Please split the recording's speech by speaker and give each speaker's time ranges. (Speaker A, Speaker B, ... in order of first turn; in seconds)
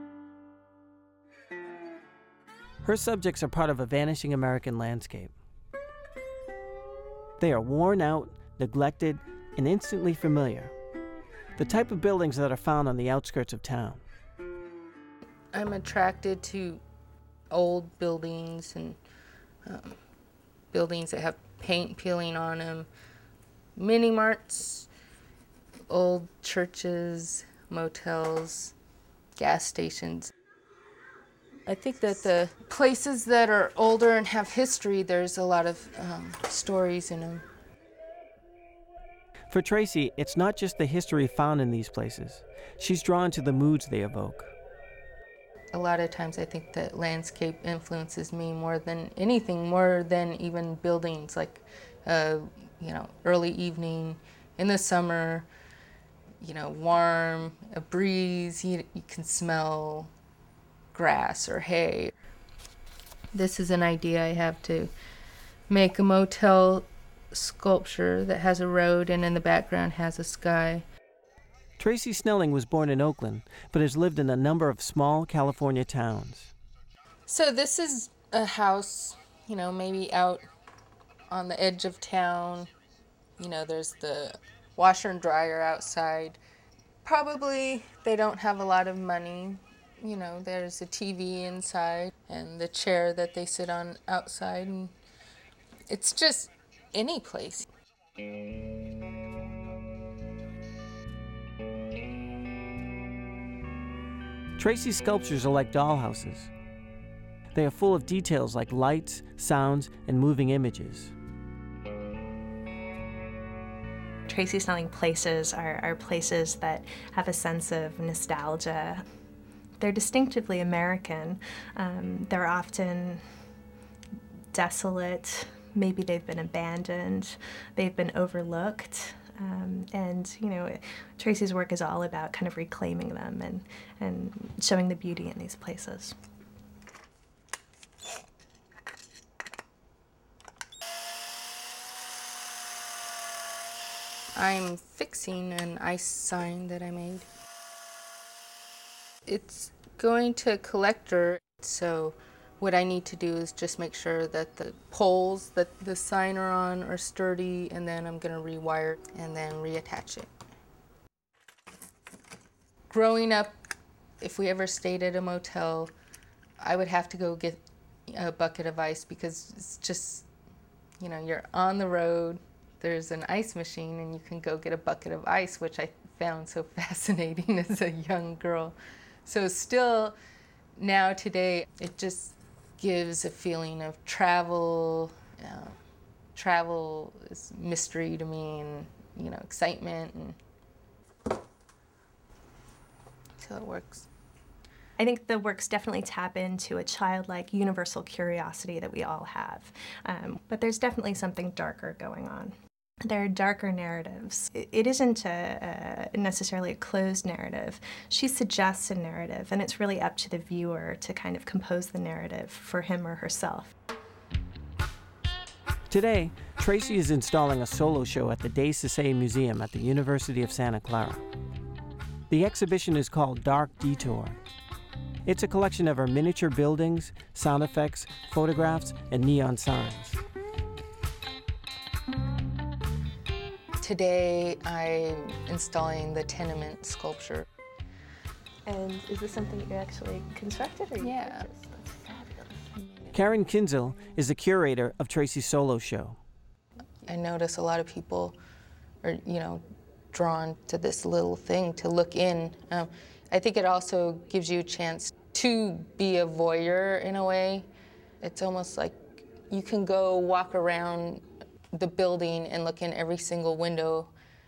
Speaker A: 2.8-5.3, 7.4-10.7, 11.6-14.0, 39.5-44.5, 71.8-76.5, 104.6-106.5, 107.5-111.1, 215.9-221.2, 222.3-224.4, 225.3-230.2, 243.1-246.2
Speaker B: 15.5-16.8, 17.5-19.0, 19.6-20.0, 20.7-22.9, 23.8-24.9, 25.9-28.8, 29.4-30.3, 31.7-37.5, 45.7-55.5, 56.4-60.1, 60.9-62.1, 63.3-64.9, 65.7-70.8, 77.3-80.5, 81.3-82.7, 83.4-86.4, 87.0-94.9, 95.9-97.7, 144.4-147.3, 149.3-160.3, 162.9-163.5, 164.2-165.9, 166.6-170.3, 171.0-180.2, 180.8-185.8, 186.3-190.4, 193.4-194.1, 233.8-237.5, 241.0-241.5, 247.0-248.4, 249.0-257.7, 258.2-264.1
Speaker C: 114.3-119.0, 119.8-123.2, 124.5-136.2, 195.0-202.5, 203.1-213.7, 238.7-243.1